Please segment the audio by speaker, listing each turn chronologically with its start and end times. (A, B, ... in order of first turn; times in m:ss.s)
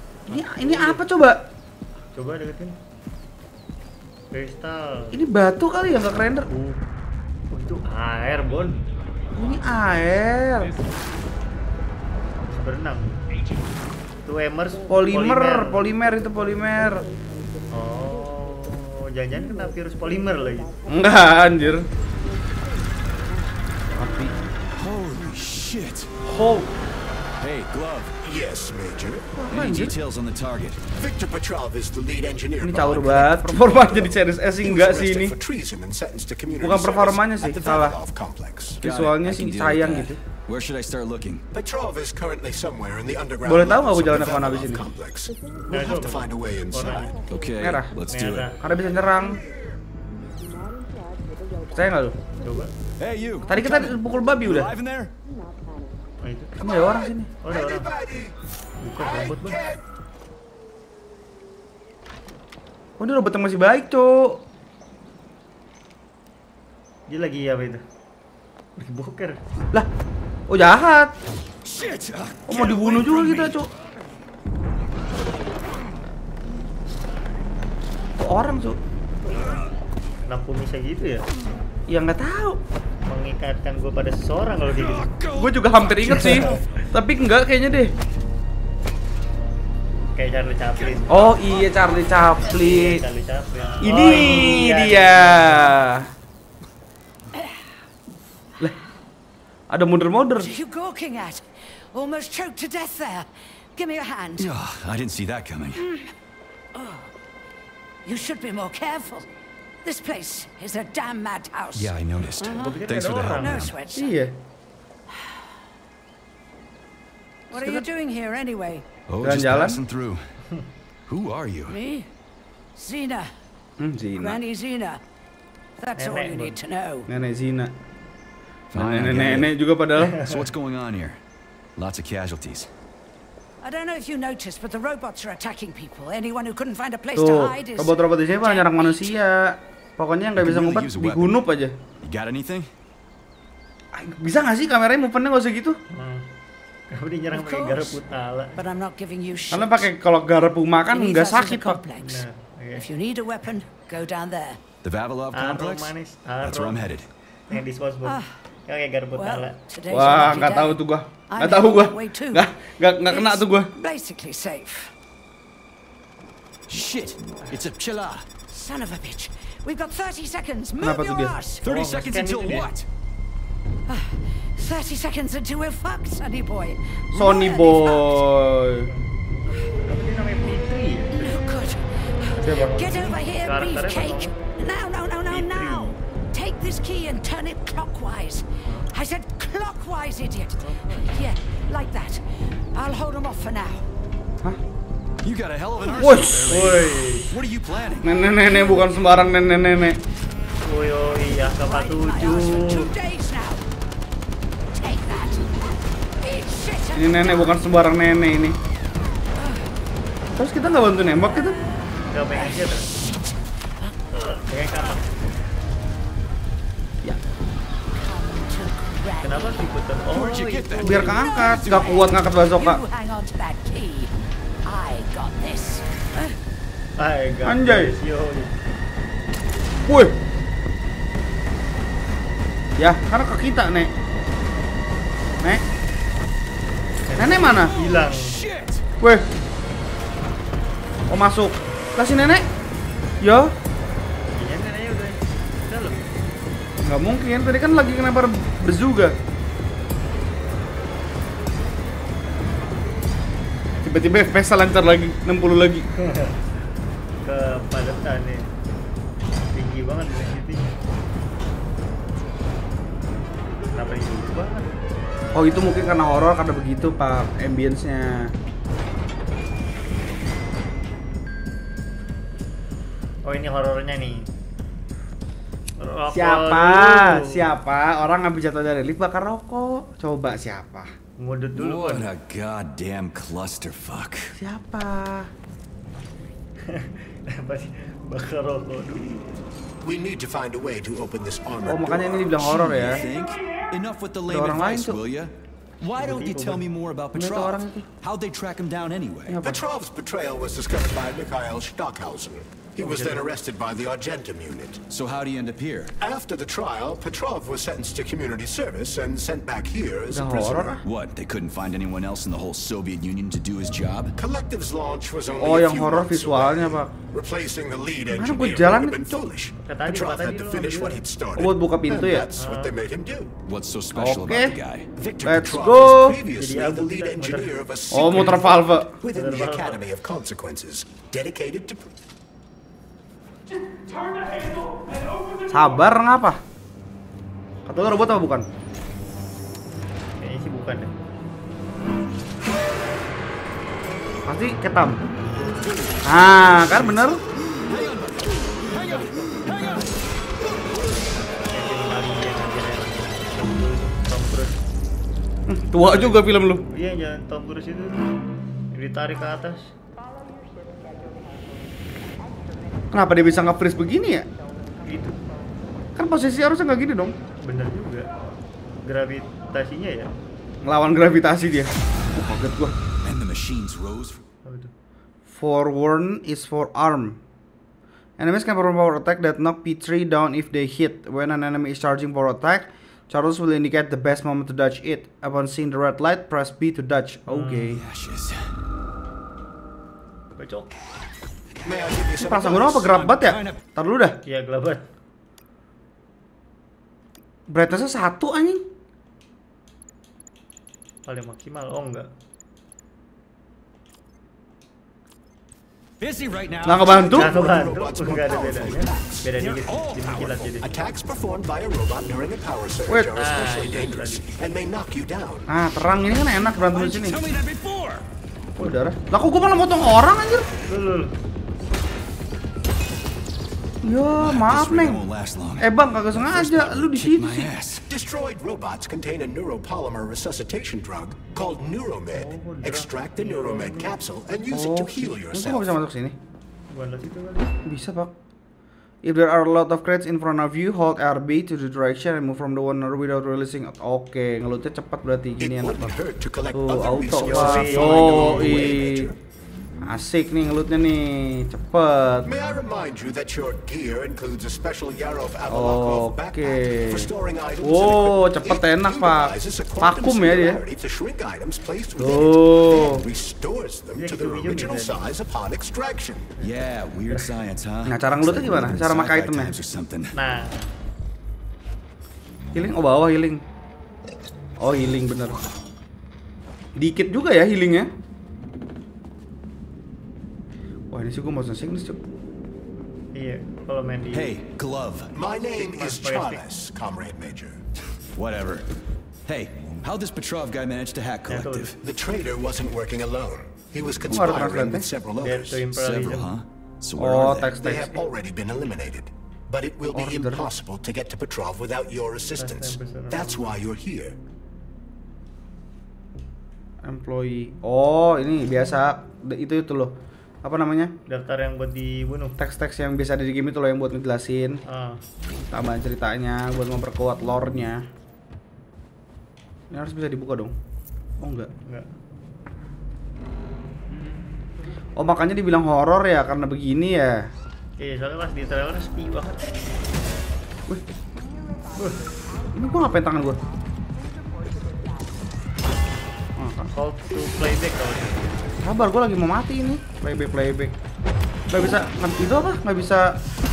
0:00.3-0:01.0 A
0:00.3-0:01.4 B
0:02.1-0:02.8 A
0:04.3-0:05.2 A
0:05.1-0:06.5 B
0:06.5-0:06.8 A
0:07.5-0:08.8 A
0:09.4-0:10.7 B
0:12.5-0:13.2 A
0:14.2-0:15.8 A
0:14.9-0:17.1 B
0:17.7-0:20.7 A
0:20.9-0:21.9 B
0:24.0-0:24.3 B
0:24.7-0:26.2 C
0:26.2-0:26.7 B
0:27.4-0:28.2 C
0:28.2-0:29.4 D
0:29.4-0:29.9 B
0:29.5-0:30.8 C
0:30.9-0:38.8 D
0:32.6-0:35.4 B
0:36.6-0:38.0 B
0:38.8-0:41.4 C
0:38.8-0:40.2 B
0:41.5-0:47.2 D
0:43.4-0:44.8 B
0:45.7-0:47.1 A
0:47.3-0:48.6 C
0:47.6-0:47.9 B
0:48.1-0:48.6 A
0:48.6-0:49.4 B
0:51.7-0:52.2 B
0:52.4-0:52.7 A
0:53.0-0:55.1 C
0:53.5-0:54.7 B
0:56.2-0:56.6 A
0:56.6-0:57.3 B
0:56.7-0:58.3 D
0:57.4-0:57.9 A
0:58.8-0:59.6 A
0:59.0-0:59.8 D
1:03.0-1:04.4 B
1:07.1-1:07.8 A
1:08.8-1:09.4 A
1:10.5-1:11.1 B
1:11.6-1:13.5 C
1:12.5-1:13.7 B
1:18.2-1:18.8 B
1:20.3-1:21.3 A
1:21.9-1:22.6 B
1:23.1-1:25.1 A
1:24.8-1:26.3 C
1:25.4-1:27.9 B
1:26.1-1:26.6 A
1:30.2-1:31.1 A
1:31.1-1:33.0 B
1:32.4-1:35.8 A
1:33.8-1:36.1 B
1:39.7-1:40.6 B
1:40.4-1:41.4 E
1:41.9-1:44.5 E
1:44.4-1:45.8 C
1:45.8-1:46.1 E
1:46.7-1:47.1 E
1:48.0-1:49.3 E
1:49.8-1:54.1 E
1:51.7-1:53.8 C
1:52.5-1:53.7 A
1:53.9-1:54.4 B
1:57.5-1:58.9 E
1:57.5-1:57.8 B
1:59.1-2:00.2 C
1:59.2-1:59.8 B
2:01.1-2:01.8 C
2:01.7-2:02.1 E
2:02.8-2:03.3 E
2:03.8-2:04.4 B
2:04.2-2:05.0 E
2:05.8-2:07.1 E
2:06.0-2:06.6 A
2:07.1-2:07.7 B
2:08.7-2:09.5 C
2:08.7-2:10.2 B
2:10.1-2:10.4 A
2:10.2-2:11.2 C
2:11.8-2:12.7 C
2:13.6-2:19.1 E
2:17.1-2:21.7 B
2:20.4-2:21.4 C
2:22.0-2:22.7 C
2:23.9-2:25.8 B
2:25.9-2:26.2 A
2:26.9-2:28.5 A
2:27.3-2:28.0 E
2:28.6-2:29.9 E
2:29.5-2:31.8 B
2:30.9-2:34.6 E
2:32.0-2:32.9 A
2:34.8-2:37.1 C
2:35.3-2:36.8 A
2:37.5-2:40.4 A
2:37.5-2:38.3 E
2:39.1-2:42.5 E
2:39.9-2:43.7 B
2:43.1-2:44.9 E
2:46.7-2:48.3 C
2:48.5-2:51.7 E
2:50.8-2:51.3 B
2:51.6-2:52.8 C
2:51.7-2:52.7 A
2:53.9-2:58.2 E
2:57.1-2:58.9 B
2:59.8-3:01.5 A
3:01.1-3:12.2 E
3:02.4-3:04.3 A
3:02.4-3:02.8 B
3:05.3-3:05.9 A
3:12.7-3:13.8 E
3:15.2-3:18.1 C
3:15.8-3:17.3 A
3:16.0-3:16.5 B
3:18.0-3:20.0 B
3:20.6-3:22.9 A
3:21.3-3:23.6 E
3:24.8-3:25.7 E
3:26.2-3:27.6 E
3:26.9-3:28.6 B
3:29.4-3:29.6 E
3:30.4-3:31.6 B
3:31.2-3:32.9 E
3:32.1-3:32.9 A
3:34.1-3:35.0 A
3:38.0-3:39.7 E
3:39.2-3:40.8 A
3:40.1-3:41.3 C
3:40.3-3:44.1 E
3:40.8-3:42.8 B
3:44.6-3:46.4 E
3:47.0-3:48.6 A
3:47.4-3:47.9 B
3:49.9-3:50.2 B
3:52.8-3:53.9 B
3:57.1-3:58.4 A
3:57.2-3:57.7 B
3:57.5-3:58.8 C
3:59.0-3:59.3 B
4:01.1-4:02.4 B
4:03.2-4:03.5 B
4:04.3-4:06.0 A
4:06.8-4:09.1 B
4:13.8-4:15.9 B
4:16.0-4:16.4 A
4:17.2-4:18.5 A
4:19.5-4:20.7 A
4:23.7-4:24.7 A
4:25.4-4:28.3 B
4:33.2-4:34.3 A
4:35.8-4:37.5 A
4:36.1-4:40.9 B
4:41.2-4:42.1 A
4:41.6-4:44.3 C
4:44.4-4:45.3 B
4:46.7-4:49.3 A
4:49.8-4:53.1 D
4:51.7-4:53.0 B
4:52.6-4:59.4 C
4:54.3-4:55.0 B
4:56.0-4:56.6 A
4:57.1-4:57.9 B
4:59.3-4:59.6 B
4:59.4-5:04.8 D
5:02.8-5:03.3 A
5:04.9-5:05.9 C
5:06.0-5:10.7 D
5:10.1-5:10.8 B
5:10.8-5:14.1 C
5:14.2-5:23.4 D
5:15.4-5:16.9 B
5:18.1-5:19.3 B
5:19.6-5:21.0 A
5:21.4-5:22.3 B
5:22.4-5:22.7 A
5:23.4-5:24.9 C
5:23.9-5:24.6 B
5:24.9-5:31.9 D
5:25.2-5:26.2 B
5:26.4-5:29.8 A
5:27.9-5:28.9 B
5:35.5-5:36.4 B
5:37.6-5:38.4 B
5:40.2-5:40.9 A
5:44.3-5:45.0 B
5:46.1-5:47.2 B
5:47.6-5:49.9 C
5:51.5-5:54.6 A
5:55.5-5:56.6 B
5:55.8-5:58.0 A
5:58.7-5:59.7 A
6:02.9-6:04.3 B
6:04.9-6:05.2 A
6:06.0-6:07.2 B
6:07.4-6:08.1 A
6:08.8-6:10.1 A
6:10.6-6:12.7 B
6:13.0-6:14.2 C
6:14.4-6:14.7 A
6:15.3-6:17.2 B
6:18.2-6:27.8 B
6:27.3-6:27.6 A
6:27.6-6:28.5 C
6:30.4-6:30.7 A
6:31.6-6:33.0 D
6:32.2-6:34.2 B
6:32.9-6:33.6 C
6:34.2-6:34.8 A
6:37.5-6:38.6 B
6:41.0-6:42.1 A
6:46.0-6:47.2 C
6:46.6-6:47.3 B
6:47.0-6:49.4 D
6:47.1-6:50.8 A
6:49.4-6:50.6 C
6:50.6-6:55.5 D
6:52.9-6:53.2 B
6:53.2-6:54.2 A
6:55.5-6:57.2 B
6:56.6-6:58.0 C
6:58.6-7:00.4 B
7:00.7-7:01.1 A
7:03.8-7:05.0 B
7:04.2-7:07.8 C
7:05.6-7:07.5 B
7:07.8-7:15.7 D
7:12.1-7:14.0 A
7:14.5-7:16.2 B
7:16.7-7:17.5 A
7:17.6-7:18.1 B
7:19.0-7:26.0 B
7:25.4-7:29.2 D
7:26.5-7:29.1 B
7:27.2-7:28.8 A
7:29.8-7:32.3 B
7:32.2-7:46.3 D
7:35.5-7:40.6 B
7:42.0-7:43.0 B
7:44.0-7:45.0 A
7:46.4-7:50.1 C
7:47.9-7:49.5 B
7:50.1-7:50.7 A
7:52.5-7:53.4 B
7:54.6-7:55.4 B
7:56.8-7:57.9 B
8:00.9-8:02.0 B
8:03.1-8:04.3 A
8:04.1-8:05.1 C
8:05.1-8:07.6 D
8:05.5-8:06.4 A
8:08.1-8:08.6 C
8:09.3-8:11.8 C
8:11.3-8:11.7 A
8:11.8-8:15.7 D
8:14.1-8:14.9 B
8:15.2-8:16.3 A
8:15.7-8:17.6 C
8:17.0-8:18.0 B
8:17.5-8:24.2 D
8:19.9-8:20.5 B
8:22.4-8:23.5 A
8:26.8-8:30.9 B
8:31.1-8:32.4 A
8:32.4-8:34.6 B
8:34.7-8:35.0 A
8:35.5-8:37.8 B
8:39.7-8:40.5 B
8:41.2-8:41.5 B
8:45.0-8:47.2 B
8:47.8-8:49.5 A
8:52.5-8:53.4 B
8:56.4-8:56.7 B
8:56.7-8:58.3 A
8:58.6-9:00.7 B
9:01.5-9:03.2 B